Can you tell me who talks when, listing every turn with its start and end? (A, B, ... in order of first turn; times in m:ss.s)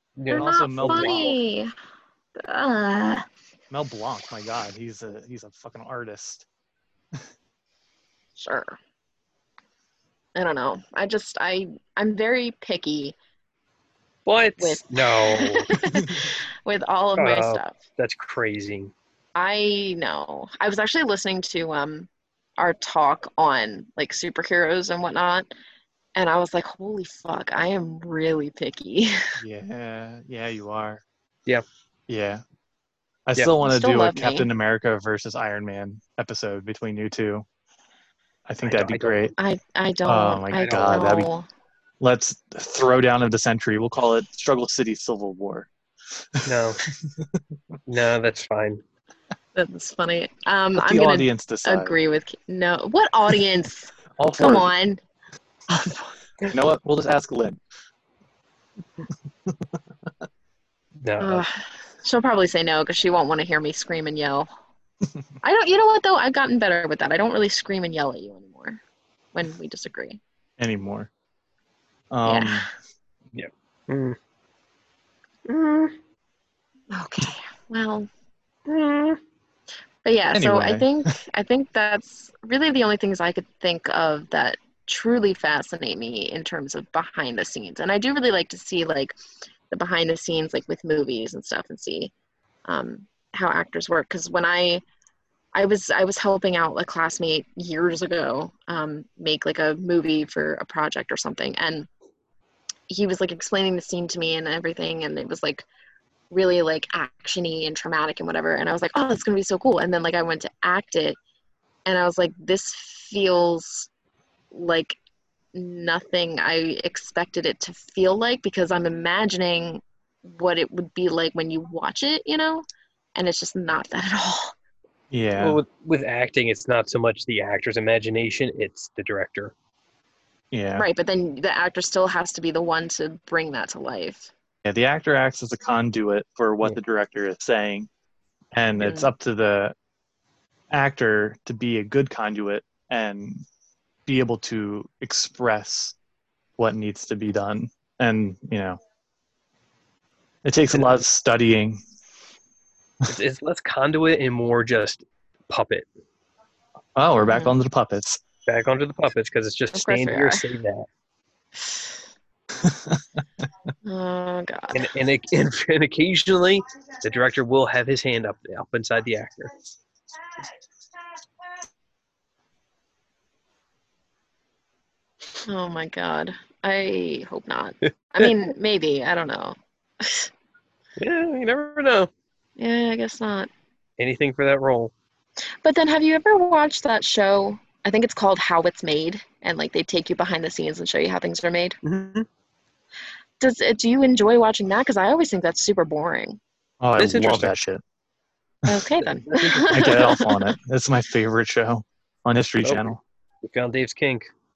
0:00.2-0:01.3 A
0:00.3-0:01.7 B
0:00.3-0:01.3 C
0:02.4-0:03.2 B
0:03.7-0:06.5 C
0:08.4-0:08.8 B
0:10.3-0:13.1 B
0:14.2-0:15.8 A
0:14.6-0:17.8 B
0:15.9-0:16.3 C
0:17.2-0:18.9 A
0:19.4-0:25.5 B
0:26.2-0:29.4 B
0:29.4-0:31.0 C
0:32.1-0:32.4 C
0:33.3-0:37.4 C
0:33.6-0:34.5 B
0:38.5-0:39.3 C
0:38.6-0:39.3 A
0:39.4-0:41.4 B
0:40.0-0:41.3 C
0:40.5-0:41.2 A
0:42.0-0:47.4 C
0:46.4-0:46.8 A
0:47.9-0:48.8 A
0:49.5-0:55.0 B
0:50.7-0:52.0 C
0:54.2-0:54.7 C
0:55.7-0:56.1 B
0:56.5-0:57.6 C
0:59.4-0:59.8 C
1:01.0-1:01.4 A
1:01.2-1:04.5 B
1:05.4-1:08.8 B
1:09.3-1:10.2 B
1:10.6-1:11.1 C
1:12.1-1:12.7 C
1:12.2-1:12.7 B
1:13.3-1:14.2 A
1:15.4-1:15.9 A
1:16.9-1:18.1 B
1:18.6-1:19.2 A
1:20.0-1:29.1 B
1:20.3-1:21.1 C
1:29.7-1:32.1 B
1:32.6-1:34.8 B
1:35.5-1:41.9 B
1:42.9-1:45.6 B
1:46.3-1:51.2 B
1:51.8-1:53.9 B
1:54.5-1:55.0 B
1:55.5-2:04.5 B
2:05.1-2:05.6 C
2:05.4-2:09.5 A
2:10.5-2:10.8 C
2:10.8-2:14.3 B
2:14.6-2:17.9 C
2:18.5-2:19.7 C
2:18.8-2:19.1 B
2:20.7-2:23.4 C
2:24.1-2:26.0 C
2:26.6-2:28.8 C
2:30.4-2:31.8 C
2:33.0-2:35.9 A
2:37.0-2:38.2 C
2:37.2-2:37.6 B
2:38.5-2:40.9 A
2:39.7-2:40.4 B
2:42.6-2:43.2 C
2:43.8-2:44.9 B
2:44.7-2:49.6 A
2:55.4-3:00.3 B
3:01.0-3:02.1 A
3:02.6-3:03.5 B
3:04.0-3:04.9 A
3:05.6-3:11.8 B
3:11.8-3:12.2 A
3:13.4-3:16.4 B
3:16.8-3:17.8 C
3:17.0-3:17.5 A
3:18.7-3:20.5 B
3:19.1-3:20.2 A
3:19.7-3:23.0 C
3:22.6-3:24.3 A